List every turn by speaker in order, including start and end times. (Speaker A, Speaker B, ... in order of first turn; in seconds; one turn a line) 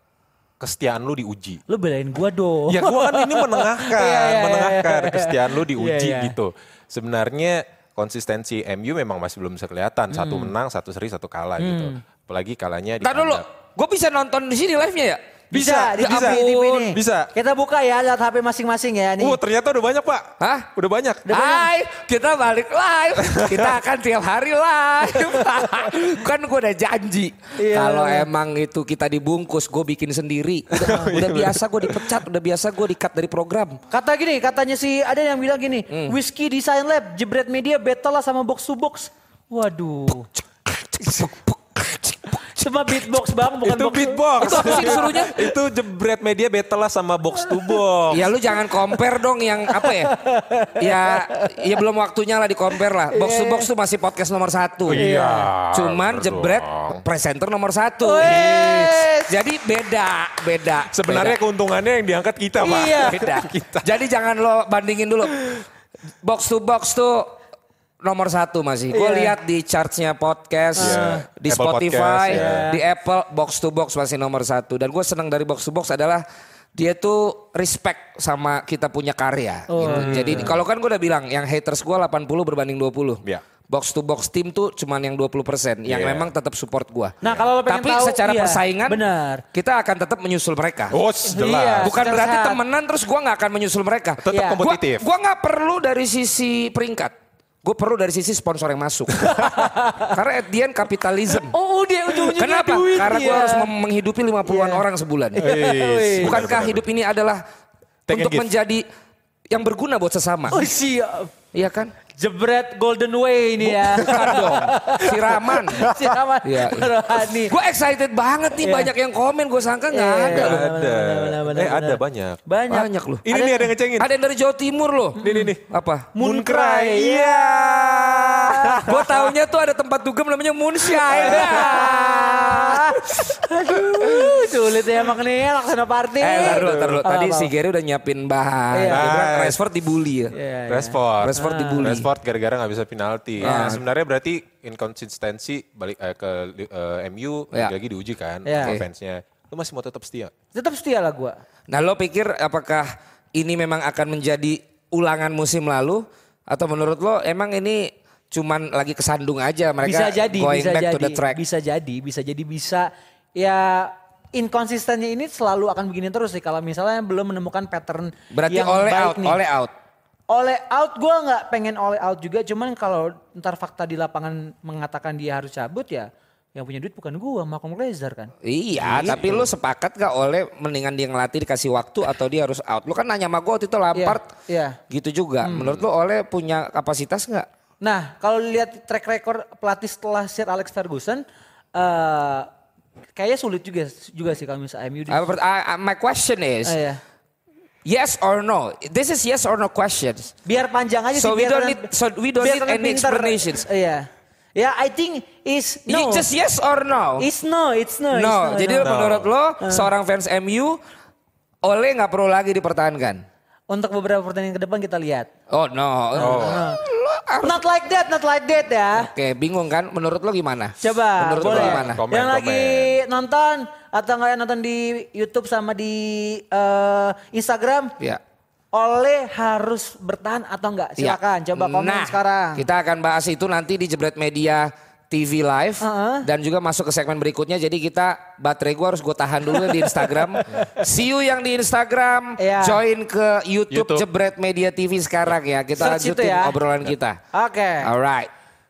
Speaker A: 0.6-1.6
Speaker B: 1.7-6.3
Speaker A: 2.7-13.4
Speaker B: 10.1-10.5
Speaker B: 11.6-12.0
Speaker C: 13.0-16.9
Speaker B: 15.5-19.4
Speaker A: 15.5-17.3
Speaker A: 19.2-21.3
Speaker C: 20.4-20.7
Speaker B: 21.3-21.7
Speaker C: 21.3-33.8
Speaker A: 23.2-23.8
Speaker B: 25.4-25.9
Speaker B: 27.6-28.3
Speaker A: 30.7-32.1
Speaker B: 33.9-40.3
Speaker A: 41.0-42.0
Speaker B: 42.4-45.3
Speaker A: 43.6-48.3
Speaker C: 44.4-45.4
Speaker C: 48.1-50.1
Speaker B: 48.6-49.0
Speaker B: 49.7-51.8
Speaker C: 50.8-55.0
Speaker B: 53.1-53.7
Speaker A: 54.9-57.0
Speaker B: 54.9-55.5
Speaker C: 55.7-61.4
Speaker B: 58.0-59.3
Speaker A: 60.9-64.0
Speaker B: 62.6-63.2
Speaker C: 63.0-65.6
Speaker C: 66.2-67.4
Speaker C: 68.0-76.2
Speaker B: 68.9-69.3
Speaker B: 70.8-71.2
Speaker A: 70.8-72.7
Speaker B: 72.3-72.8
Speaker C: 76.7-89.0
Speaker B: 79.7-80.5
Speaker A: 79.8-80.6
Speaker A: 85.8-86.3
Speaker B: 87.2-89.4
Speaker C: 89.5-91.0
Speaker A: 90.9-92.0
Speaker B: 91.3-92.6
Speaker C: 91.8-97.1
Speaker A: 94.2-95.0
Speaker B: 94.3-94.6
Speaker C: 97.6-101.5
Speaker A: 99.2-99.5
Speaker B: 99.2-100.2
Speaker B: 101.3-103.7
Speaker C: 102.2-105.5
Speaker B: 104.4-104.8
Speaker B: 105.3-106.4
Speaker A: 105.3-106.9
Speaker C: 106.2-107.4
Speaker A: 108.1-108.5
Speaker C: 108.1-108.8
Speaker C: 109.5-110.6
Speaker B: 110.5-111.3
Speaker C: 111.5-111.9
Speaker B: 112.1-117.5
Speaker A: 113.7-115.2
Speaker C: 113.9-115.8
Speaker A: 115.8-116.1
Speaker C: 116.4-120.6
Speaker B: 118.6-118.9
Speaker B: 119.9-123.7
Speaker A: 120.3-122.4
Speaker C: 122.7-123.3
Speaker A: 123.2-124.1
Speaker C: 124.0-126.1
Speaker B: 125.2-125.5
Speaker A: 125.2-129.3
Speaker B: 126.1-128.9
Speaker C: 128.8-133.1
Speaker B: 131.0-137.5
Speaker A: 131.1-131.6
Speaker A: 133.9-134.3
Speaker C: 136.2-140.3
Speaker A: 136.4-137.0
Speaker B: 138.7-139.1
Speaker A: 138.9-139.6
Speaker B: 140.3-141.9
Speaker A: 140.7-150.3
Speaker C: 141.2-142.1
Speaker B: 143.4-143.8
Speaker C: 143.4-143.8
Speaker B: 148.4-148.7
Speaker B: 150.5-151.4
Speaker C: 151.7-161.4
Speaker B: 159.8-169.4
Speaker C: 168.3-169.7
Speaker B: 170.3-178.3
Speaker C: 178.4-184.3
Speaker A: 178.8-179.5
Speaker B: 178.8-179.1
Speaker B: 183.9-184.8
Speaker C: 184.9-187.5
Speaker B: 185.4-185.8
Speaker B: 187.8-192.5
Speaker B: 193.2-195.3
Speaker C: 195.1-196.8
Speaker B: 196.6-197.0
Speaker C: 197.8-200.3
Speaker B: 200.4-201.9
Speaker C: 201.1-203.6
Speaker B: 202.4-206.3
Speaker C: 205.9-207.3
Speaker B: 207.2-208.9
Speaker C: 208.1-210.8
Speaker A: 208.8-209.3
Speaker B: 209.6-209.9
Speaker C: 211.6-213.2
Speaker B: 213.7-215.3
Speaker C: 215.5-217.6
Speaker B: 216.1-216.8
Speaker A: 216.2-216.6
Speaker B: 217.4-219.1
Speaker C: 218.9-222.0
Speaker B: 220.8-227.9
Speaker A: 221.4-223.0
Speaker B: 228.7-232.6
Speaker C: 231.0-247.2
Speaker B: 235.8-236.2
Speaker B: 239.5-240.8
Speaker B: 242.4-242.8
Speaker A: 243.7-244.1
Speaker B: 245.8-246.6
Speaker B: 247.3-247.9
Speaker C: 247.8-248.3